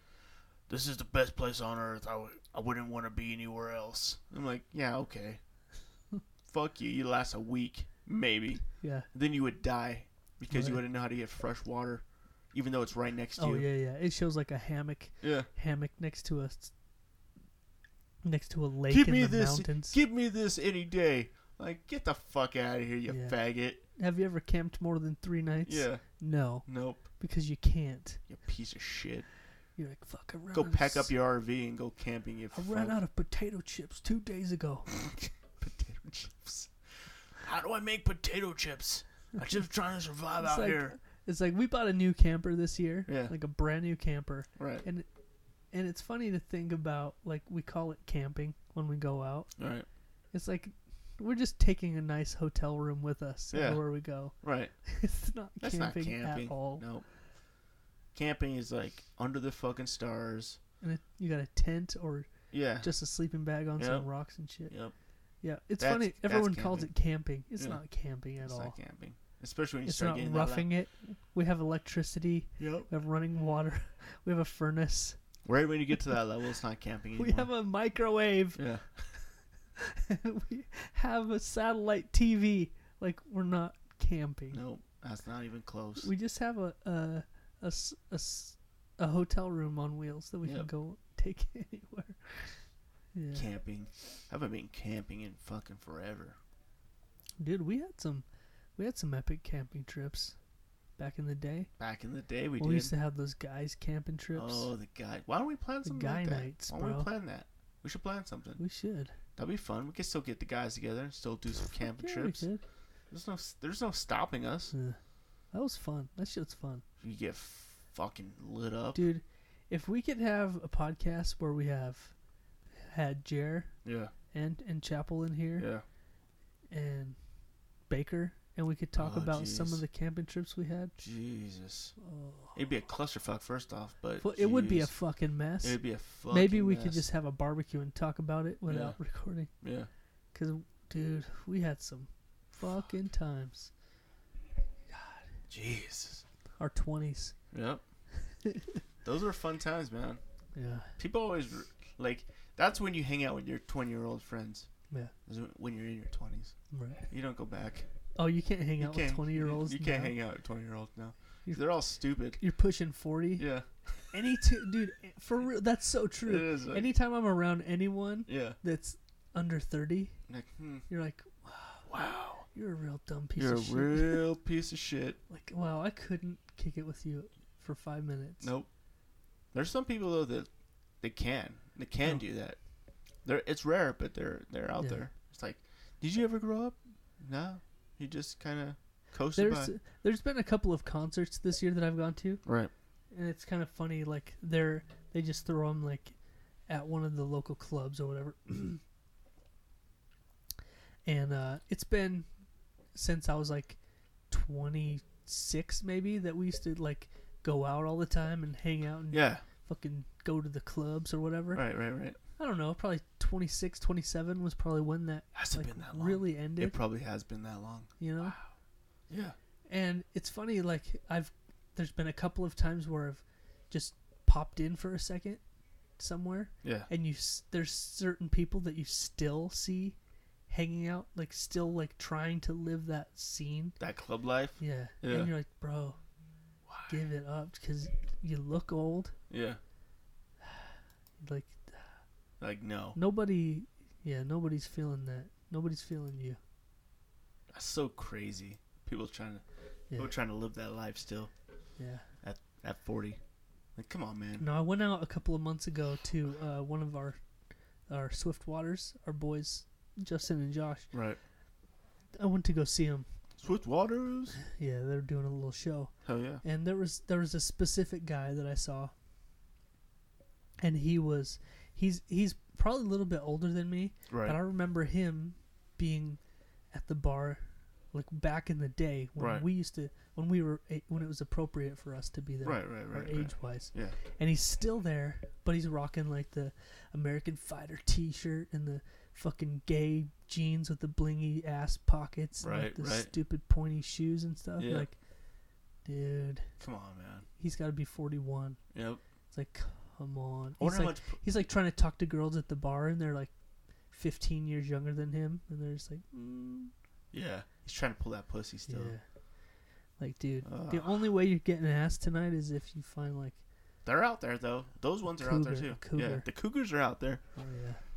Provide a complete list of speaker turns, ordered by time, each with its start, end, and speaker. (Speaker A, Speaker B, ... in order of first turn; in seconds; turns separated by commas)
Speaker A: 0.7-5.4, Speaker A: 6.5-13.7, Speaker B: 8.8-9.1, Speaker B: 10.5-10.8, Speaker B: 13.4-16.7, Speaker A: 15.2-15.5, Speaker B: 18.2-20.0, Speaker A: 18.9-23.8, Speaker B: 23.1-28.2, Speaker A: 25.6-26.1, Speaker A: 26.6-27.0, Speaker A: 28.3-29.2, Speaker B: 29.8-31.1, Speaker A: 30.5-33.0, Speaker B: 32.5-34.9, Speaker A: 35.0-41.0, Speaker B: 40.4-45.0, Speaker A: 43.1-43.3, Speaker A: 44.5-44.8, Speaker B: 45.7-49.5, Speaker A: 49.6-49.9, Speaker B: 50.3-56.9, Speaker A: 53.5-54.8, Speaker A: 55.6-57.1, Speaker A: 58.1-60.6, Speaker B: 60.8-64.7, Speaker A: 62.5-62.9, Speaker A: 63.8-64.9, Speaker B: 65.4-68.8, Speaker A: 65.8-66.9, Speaker A: 67.6-67.8, Speaker A: 68.4-70.7, Speaker B: 69.8-75.2, Speaker A: 72.6-72.9, Speaker A: 75.4-77.5, Speaker B: 77.1-78.7, Speaker A: 78.5-79.1, Speaker B: 79.8-84.6, Speaker A: 84.5-86.1, Speaker B: 86.0-92.6, Speaker A: 90.4-90.7, Speaker B: 93.1-93.5, Speaker A: 93.3-96.4, Speaker B: 97.4-98.2, Speaker B: 98.8-100.3, Speaker B: 101.0-101.7, Speaker A: 101.8-102.9, Speaker B: 102.6-104.7, Speaker A: 104.3-108.6, Speaker B: 105.8-107.1, Speaker B: 108.6-109.1, Speaker A: 109.4-112.5, Speaker B: 111.8-112.6, Speaker A: 113.1-114.7, Speaker B: 114.7-115.0, Speaker B: 115.5-116.8, Speaker A: 117.0-119.0, Speaker B: 118.9-122.1, Speaker B: 122.8-123.7, Speaker A: 123.8-124.1, Speaker B: 124.3-125.7, Speaker A: 125.6-125.8, Speaker B: 126.7-127.2, Speaker B: 127.9-130.9, Speaker A: 128.9-129.8, Speaker A: 131.0-131.9, Speaker B: 132.0-132.6, Speaker A: 132.5-134.9, Speaker B: 134.2-139.5, Speaker A: 135.6-137.1, Speaker A: 138.7-139.0, Speaker A: 139.6-139.9, Speaker B: 140.3-143.7, Speaker B: 144.9-145.3, Speaker A: 145.5-146.2, Speaker B: 146.6-147.3, Speaker A: 147.5-147.8, Speaker B: 148.4-148.8, Speaker A: 149.0-150.2, Speaker B: 150.5-150.9, Speaker A: 151.0-154.7, Speaker A: 155.3-156.6, Speaker B: 156.7-157.1, Speaker A: 157.1-157.9, Speaker B: 158.2-160.1, Speaker A: 158.8-162.4, Speaker B: 162.4-163.5, Speaker A: 163.4-163.7, Speaker B: 164.1-170.2, Speaker A: 166.2-166.9, Speaker A: 168.3-168.6, Speaker A: 170.3-170.9, Speaker B: 170.9-171.9, Speaker A: 171.8-172.4, Speaker B: 172.5-174.2, Speaker A: 173.4-175.2, Speaker B: 175.3-178.5, Speaker A: 178.4-178.7, Speaker A: 179.5-180.5, Speaker A: 181.0-182.6, Speaker A: 183.2-189.7, Speaker B: 184.8-185.1, Speaker B: 189.3-192.4, Speaker A: 192.4-192.7, Speaker B: 193.1-196.2, Speaker B: 196.7-198.8, Speaker B: 201.1-202.3, Speaker B: 202.9-203.8, Speaker B: 204.3-211.7, Speaker A: 209.1-209.4, Speaker A: 211.5-212.2, Speaker B: 212.4-216.8, Speaker A: 215.3-218.5, Speaker B: 218.0-218.4, Speaker A: 219.1-219.3, Speaker B: 219.7-225.4, Speaker B: 226.0-230.0, Speaker A: 226.6-226.9, Speaker B: 230.5-233.8, Speaker A: 233.8-235.3, Speaker B: 234.6-236.0, Speaker A: 236.7-237.0, Speaker B: 236.9-239.1, Speaker A: 239.3-239.6, Speaker B: 241.2-242.0, Speaker A: 242.4-243.0, Speaker B: 242.9-246.4, Speaker A: 247.5-251.3, Speaker B: 251.8-252.1, Speaker A: 252.2-253.2, Speaker A: 253.8-254.4, Speaker B: 254.4-257.2, Speaker B: 257.9-260.9, Speaker A: 260.9-261.2, Speaker B: 262.1-263.1, Speaker A: 263.4-264.4, Speaker B: 264.4-268.9, Speaker A: 266.0-266.4, Speaker B: 270.6-276.2, Speaker A: 274.1-274.4, Speaker B: 276.7-295.0, Speaker A: 279.2-279.4, Speaker A: 282.4-283.9, Speaker A: 292.4-293.1, Speaker A: 294.6-294.9, Speaker B: 295.8-296.5, Speaker A: 296.6-297.3, Speaker B: 297.4-298.6, Speaker A: 298.7-299.0, Speaker B: 299.3-303.3, Speaker A: 300.6-301.2, Speaker B: 303.9-306.7, Speaker A: 307.1-308.9, Speaker B: 308.7-309.0, Speaker B: 310.0-313.4, Speaker A: 310.4-310.9, Speaker A: 313.8-317.2, Speaker B: 315.1-316.2, Speaker B: 317.4-317.8